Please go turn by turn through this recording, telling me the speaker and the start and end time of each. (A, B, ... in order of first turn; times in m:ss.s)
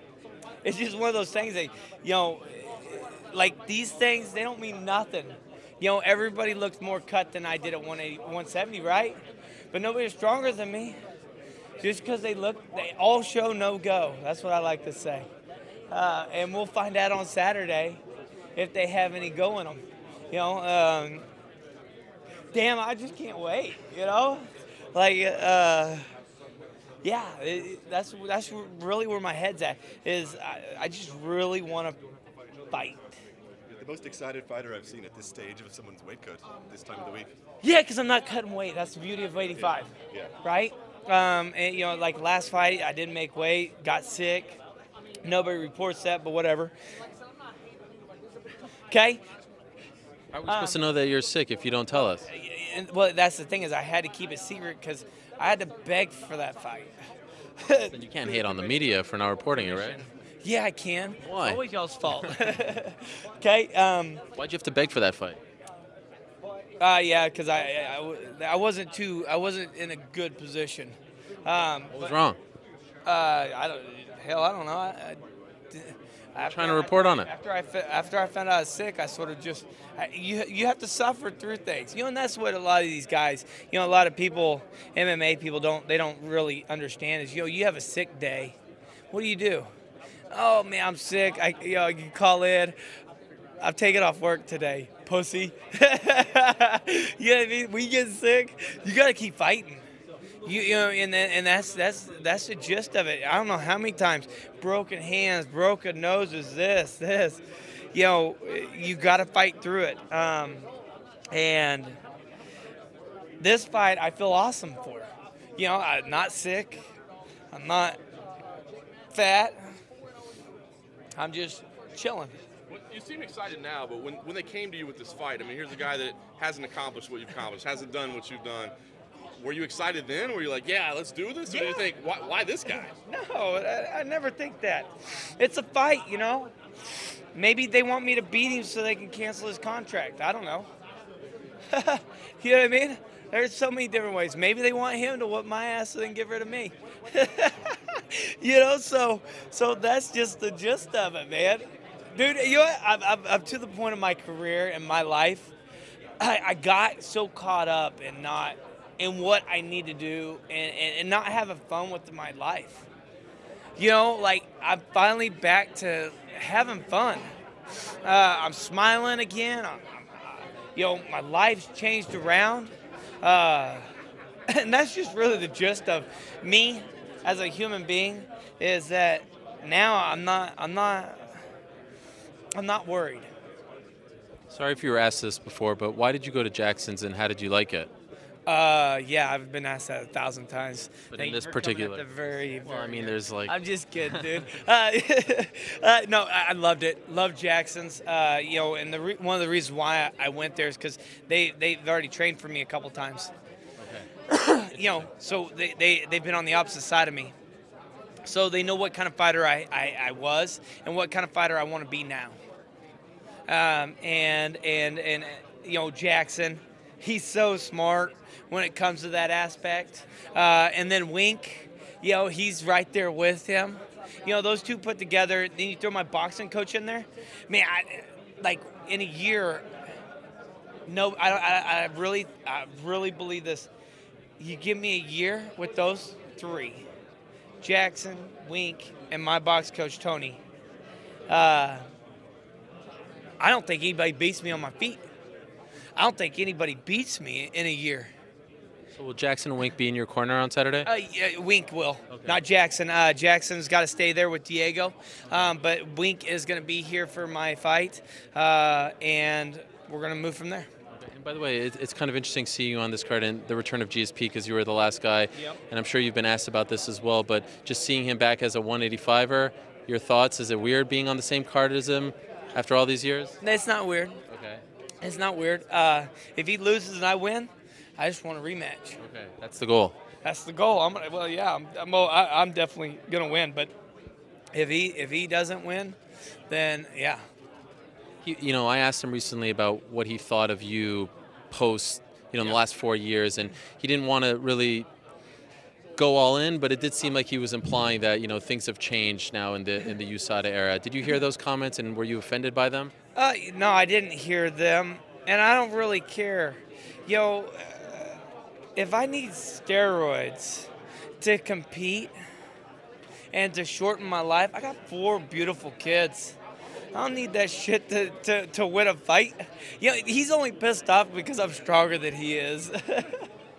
0:00.6-0:09.2 A
0:09.7-0:11.0 A
0:11.8-0:15.3 A
0:15.9-0:18.0 A
0:18.6-0:21.3 A
0:22.5-0:26.1 A
0:27.0-0:32.0 A
0:32.7-0:33.2 A
0:33.7-0:37.3 B
0:37.6-0:44.6 A
0:39.6-0:40.3 B
0:45.2-0:46.7 A
0:48.9-0:49.2 A
0:50.3-0:52.2 C
0:50.5-0:50.8 A
0:52.2-0:57.0 A
0:57.6-0:57.9 A
0:57.9-1:00.1 C
1:00.4-1:04.2 A
1:01.2-1:01.6 C
1:04.4-1:05.4 C
1:06.8-1:12.1 A
1:11.9-1:12.4 C
1:13.0-1:28.6 A
1:16.4-1:17.3 C
1:29.1-1:29.7 A
1:30.3-1:32.8 A
1:33.6-1:39.8 A
1:40.4-1:47.4 A
1:47.9-1:50.7 A
1:51.3-1:52.0 A
1:53.4-1:56.8 A
1:57.5-1:58.0 A
1:59.1-1:59.6 A
2:01.2-2:02.4 A
2:02.7-2:08.7 D
2:09.4-2:12.9 D
2:11.5-2:11.9 A
2:12.7-2:16.5 A
2:17.3-2:20.7 A
2:21.7-2:35.5 A
2:36.2-2:42.9 A
2:43.8-2:47.3 A
2:48.0-2:53.9 A
2:54.5-3:01.4 A
3:02.6-3:03.3 A
3:04.5-3:07.9 C
3:08.5-3:23.3 A
3:11.1-3:12.0 C
3:12.6-3:14.5 C
3:23.8-3:24.1 C
3:24.3-3:27.3 A
3:24.7-3:25.1 C
3:28.2-3:32.4 A
3:33.5-3:49.7 A
3:50.9-3:53.7 A
3:54.4-3:56.9 A
3:57.6-4:00.4 A
4:01.3-4:01.8 A
4:03.4-4:05.0 A
4:06.0-4:08.1 A
4:09.0-4:10.9 C
4:10.8-4:20.7 A
4:12.1-4:12.4 C
4:20.9-4:33.4 C
4:33.4-4:34.2 A
4:34.3-4:34.6 C
4:35.0-4:39.0 A
4:39.0-4:40.0 C
4:40.2-4:43.7 A
4:44.5-4:46.0 A
4:46.5-4:47.2 A
4:48.2-4:54.9 C
4:56.0-5:02.9 C
5:03.2-5:08.2 A
5:08.8-5:10.7 A
5:11.2-5:12.1 A
5:13.3-5:16.4 A
5:16.9-5:23.2 A